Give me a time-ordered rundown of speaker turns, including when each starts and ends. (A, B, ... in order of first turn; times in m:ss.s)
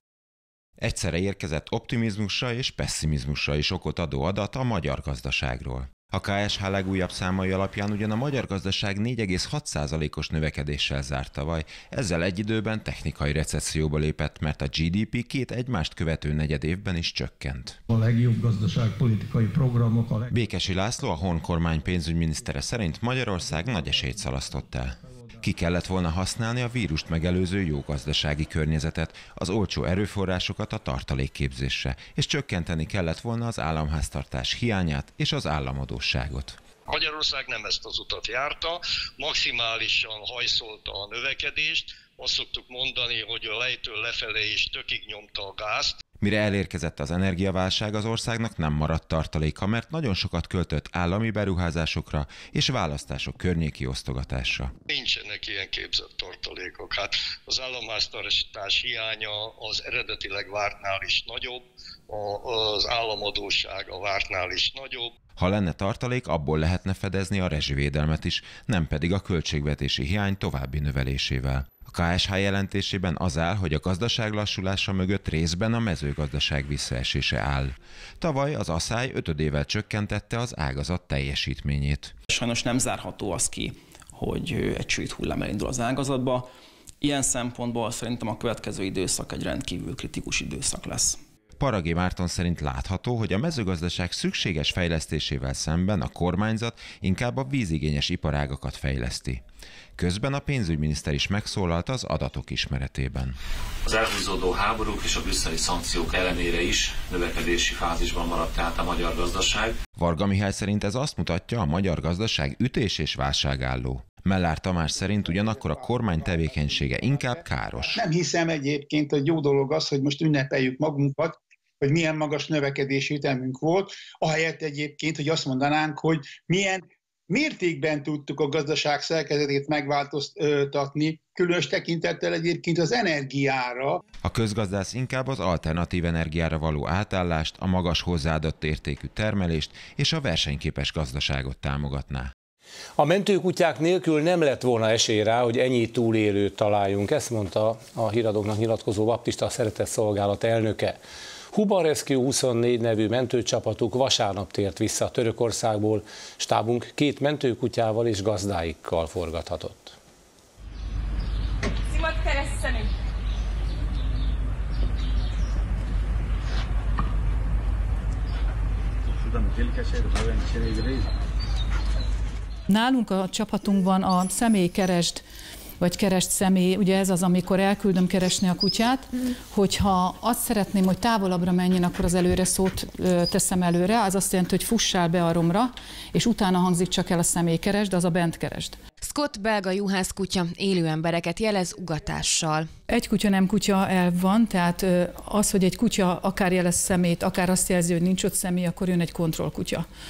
0:00.8-0:17.8 A
0:18.0-0:20.2 B
0:20.3-0:36.6 A
0:36.9-0:46.0 C
0:46.2-0:54.7 A
0:54.9-1:05.1 C
1:05.4-1:22.1 A
1:22.3-1:26.4 D
1:27.0-1:31.1 D
1:31.6-1:39.4 A
1:40.0-1:43.4 A
1:43.8-1:49.8 E
1:49.9-1:58.0 A
1:57.9-2:14.0 F
2:14.2-2:22.3 A
2:23.0-2:31.0 G
2:31.5-2:40.0 G
2:52.7-2:55.2 H
2:55.8-3:08.8 H
3:09.0-3:12.7 I
3:12.9-3:19.9 H